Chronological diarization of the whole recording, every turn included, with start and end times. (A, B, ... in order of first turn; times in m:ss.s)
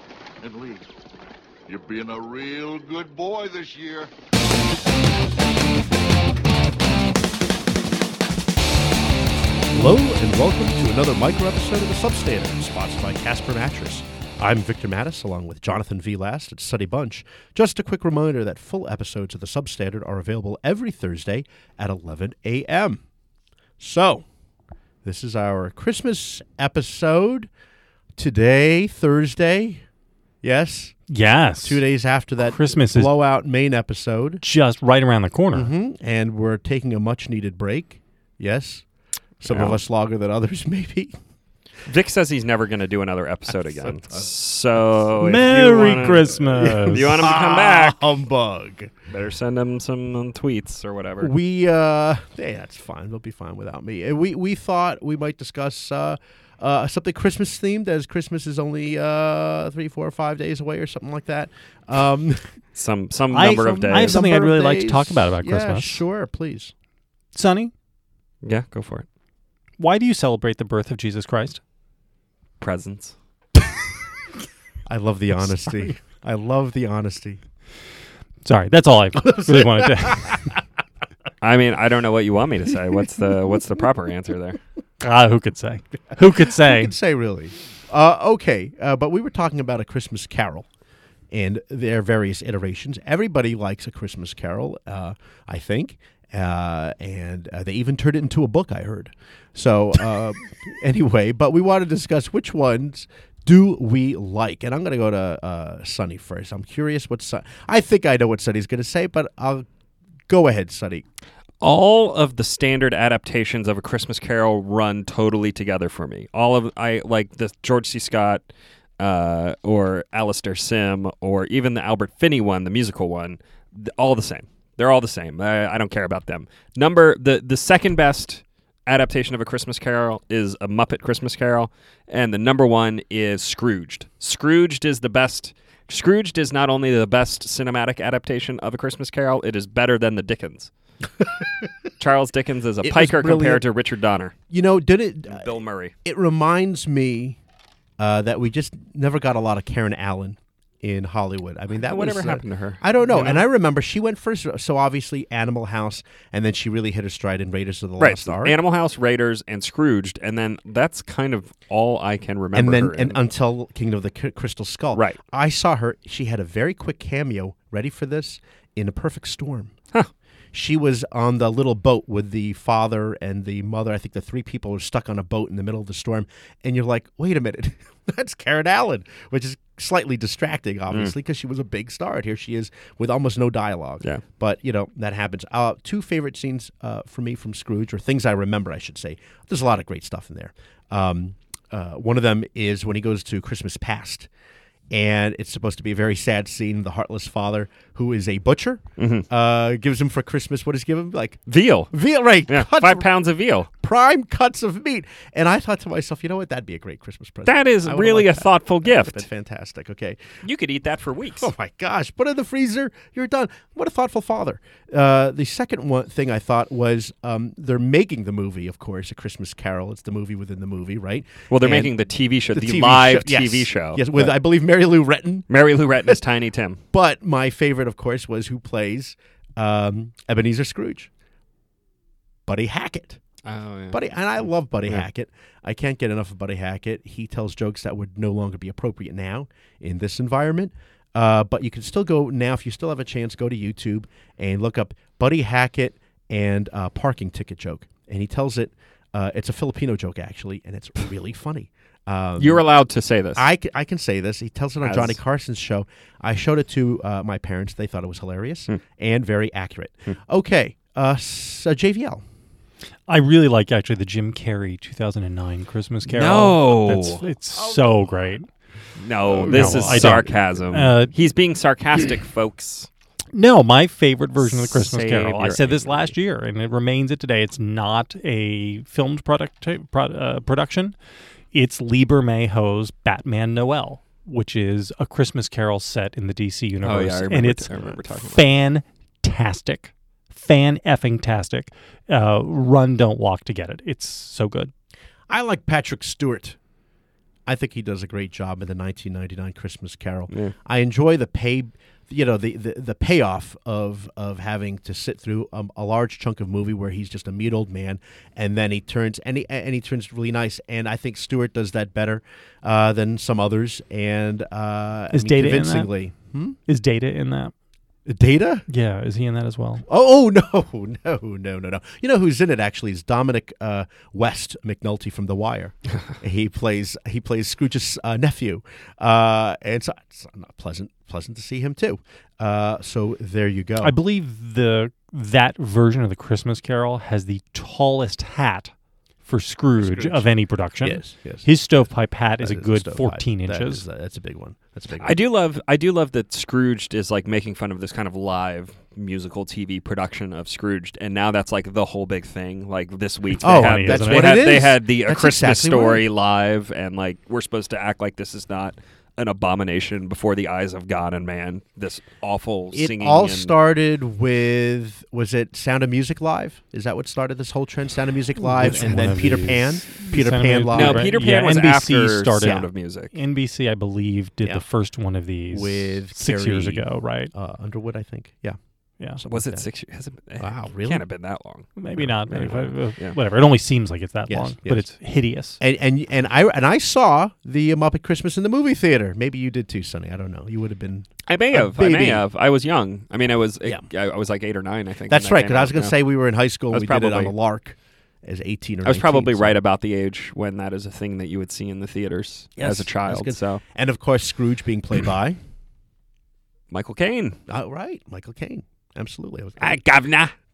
0:00.4-0:00.9 A
0:01.7-0:04.1 A
0:09.7-0:23.0 B
0:23.8-0:24.2 B
0:25.0-0:27.5 B
0:28.2-0:29.8 B
0:30.4-0:34.4 B
0:31.1-0:31.8 C
0:32.4-0:33.1 C
0:34.4-0:35.7 C
0:35.5-0:38.9 B
0:39.4-0:41.1 B
0:39.5-0:39.8 D
0:41.8-0:48.0 D
0:43.7-0:48.9 B
0:45.2-0:47.3 C
0:49.1-0:51.3 D
0:51.2-1:02.4 B
1:02.8-1:04.2 D
1:03.3-1:06.0 C
1:03.6-1:06.7 B
1:07.3-1:07.7 C
1:08.4-1:09.1 D
1:09.8-1:11.6 C
1:12.6-1:13.2 D
1:14.9-1:17.4 B
1:15.4-1:15.8 C
1:18.4-1:20.5 C
1:19.2-1:20.4 B
1:21.4-1:24.6 D
1:25.0-1:26.9 C
1:26.2-1:30.7 B
1:31.3-1:49.7 B
1:50.3-1:51.0 B
1:51.6-1:58.5 D
1:59.0-2:20.7 D
2:22.0-2:24.4 D
2:22.8-2:23.7 B
2:24.5-2:25.5 B
2:25.3-2:25.9 D
2:26.0-2:27.4 B
2:28.0-2:38.6 B
2:31.9-2:33.5 D
2:38.0-2:43.2 D
2:42.5-2:49.7 B
2:50.5-3:14.3 B
3:14.9-3:23.1 B
3:19.0-3:19.3 D
3:21.5-3:21.9 D
3:22.5-3:23.7 D
3:23.8-3:30.2 B
3:27.5-3:29.2 D
3:30.4-3:31.5 D
3:31.4-3:41.9 B
3:41.5-3:44.4 D
3:42.5-3:46.2 B
3:45.5-3:46.8 D
3:46.9-3:51.1 B
3:52.5-3:53.2 B
3:53.4-3:54.0 D
3:53.9-4:12.6 B
4:12.4-4:13.4 D
4:13.4-4:22.2 B
4:14.8-4:15.2 D
4:23.1-4:28.5 C
4:26.1-4:27.2 D
4:27.5-4:28.1 B
4:29.0-4:32.9 D
4:29.3-4:30.4 B
4:29.4-4:31.2 C
4:33.3-4:41.0 C
4:34.4-4:36.2 D
4:41.5-4:54.7 C
4:46.8-4:48.5 D
4:55.3-4:56.6 B
4:57.5-5:16.6 B
5:00.3-5:00.5 D
5:15.1-5:16.0 C
5:16.7-5:17.5 C
5:18.1-5:18.7 B
5:18.7-5:19.8 C
5:19.9-5:34.0 B
5:33.8-5:38.7 C
5:39.2-5:43.8 C
5:39.8-5:41.5 B
5:42.4-5:45.2 B
5:45.0-6:03.5 D
5:53.4-5:56.0 B
5:53.4-5:54.5 C
6:02.7-6:11.1 B
6:08.4-6:17.3 C
6:10.7-6:13.2 D
6:12.4-6:12.7 B
6:14.4-6:14.7 B
6:15.5-6:19.7 B
6:19.3-6:23.2 D
6:20.4-6:21.1 B
6:21.8-6:25.6 C
6:24.3-6:24.9 B
6:25.5-6:32.2 B
6:31.3-6:36.0 D
6:35.1-6:39.6 B
6:36.7-6:37.3 D
6:38.8-6:43.6 D
6:42.6-6:45.4 B
6:46.7-6:47.4 D
6:47.5-6:49.8 B
6:49.6-6:50.3 D